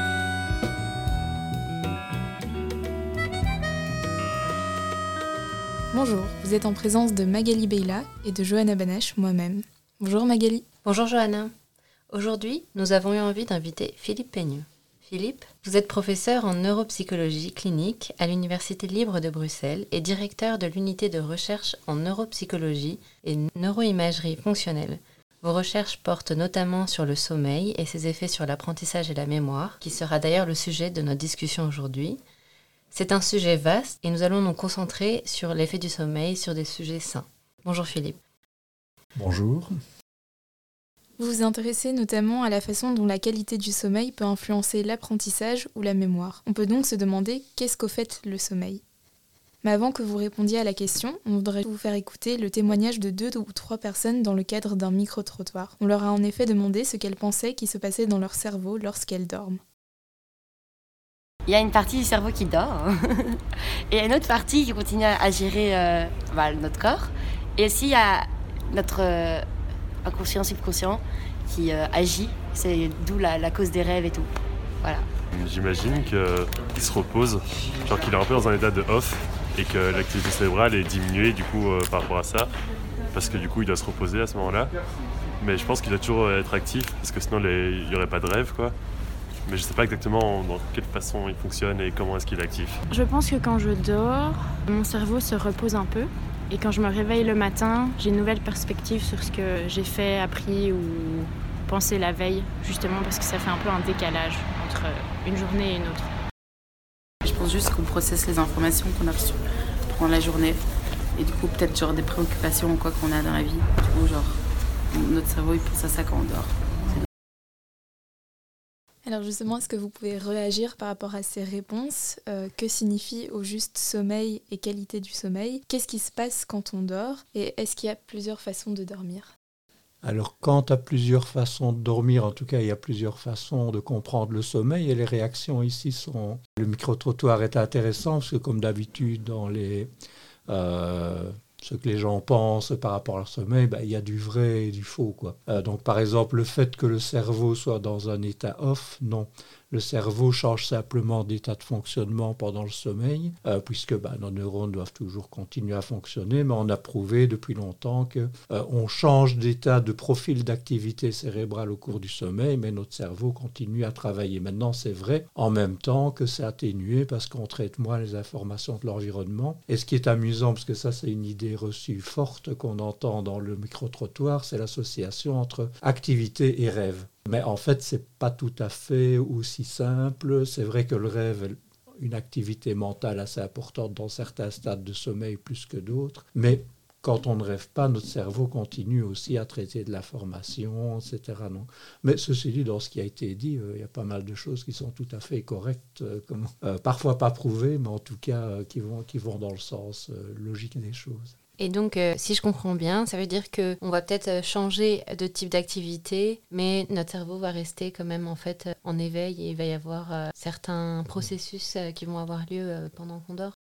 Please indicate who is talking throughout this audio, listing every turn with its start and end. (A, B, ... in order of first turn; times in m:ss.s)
0:05.9-0:10.6 A
0:10.8-0:11.5 B
0:12.1-0:32.2 B
0:32.9-0:38.2 B
0:39.2-0:39.7 C
0:41.2-0:48.8 A
0:49.6-0:59.6 A
1:01.5-1:09.4 D
1:10.0-1:14.3 D
1:14.8-1:15.1 D
1:15.3-1:22.5 E
1:23.1-1:24.7 E
1:25.4-1:28.8 E
1:29.4-1:32.8 E
1:32.9-1:46.1 F
1:47.2-1:50.6 G
1:51.2-1:54.4 G
1:54.9-1:57.0 G
1:59.0-2:09.3 A
2:10.0-2:19.9 C
2:20.5-3:21.4 C
3:21.6-3:33.6 B